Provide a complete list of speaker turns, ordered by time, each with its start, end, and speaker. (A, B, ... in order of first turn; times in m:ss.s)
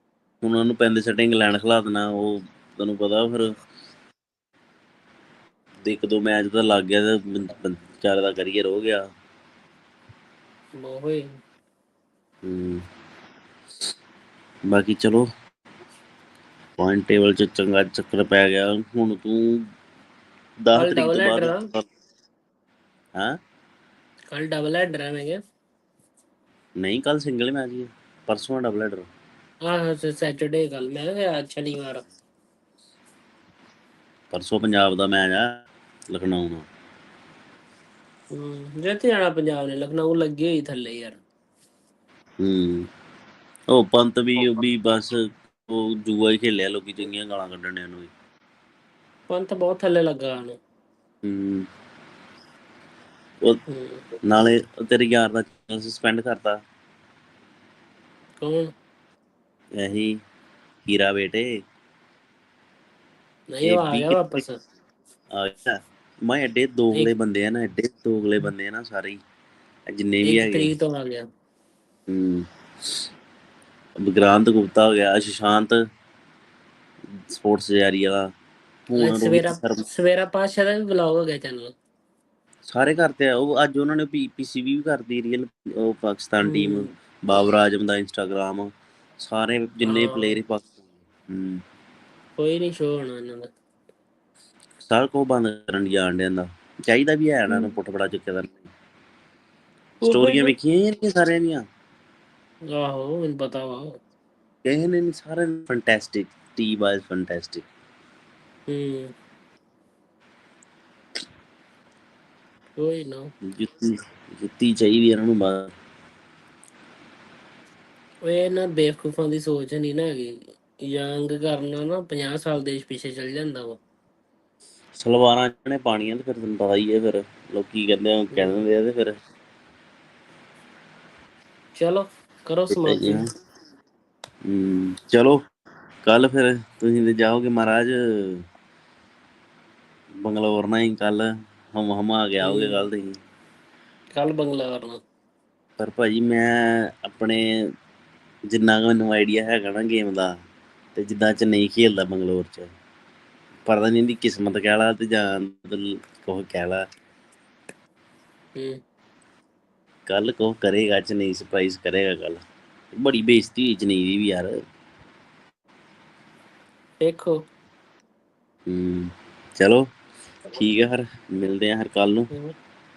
0:00.4-0:03.5 A
0:05.8-0:09.0 A
0:10.8-0:11.2 B
0:12.4-0:12.8 A
0:14.7-0:15.3 A
0:16.8-0:19.6 A
0:20.6-0:21.8 A
0:20.8-0:21.6 B
0:24.3-0:25.4 B
0:26.8-0:29.1 A
0:29.7-0:32.0 B
0:34.3-0:36.7 A
0:38.3-0:41.2 B
0:42.4-0:42.9 A
0:43.7-0:45.2 A
0:45.7-0:48.1 A
0:49.3-0:50.6 B
0:51.2-0:51.7 A
0:53.7-0:54.0 B
0:54.3-0:56.6 A
0:58.4-0:58.7 B
0:59.8-1:00.2 A
1:00.9-1:01.5 A
1:03.5-1:04.6 B
1:03.6-1:04.4 A
1:05.4-1:09.2 A
1:09.9-1:10.7 A
1:10.2-1:11.2 B
1:12.1-1:13.0 A
1:14.0-1:15.8 A
1:17.3-1:18.3 A
1:18.9-1:19.8 A
1:19.0-1:21.7 B
1:22.7-1:31.6 A
1:26.4-1:26.9 B
1:29.8-1:30.4 B
1:32.4-1:33.5 B
1:34.8-1:38.7 A
1:40.0-1:40.5 B
1:40.0-1:41.6 A
1:42.7-1:43.9 B
1:44.6-1:47.6 A
1:48.7-1:49.1 B
1:52.8-1:53.3 B
1:53.5-1:55.7 A
1:58.3-2:00.3 B
2:00.9-2:03.8 B
2:05.0-2:09.2 A
2:08.4-2:08.6 B
2:11.8-2:13.2 B
2:12.7-2:13.2 A
2:14.5-2:15.4 A
2:16.1-2:18.4 A
2:20.2-2:23.2 A
2:22.4-2:22.8 B
2:24.2-2:25.0 B
2:25.8-2:27.4 A
2:28.5-2:30.3 A
2:31.0-2:32.7 A
2:33.7-2:36.8 A
2:40.1-2:42.4 A
2:43.0-2:44.6 A
2:47.0-2:47.4 B
2:48.7-2:49.8 A
2:50.5-2:52.3 A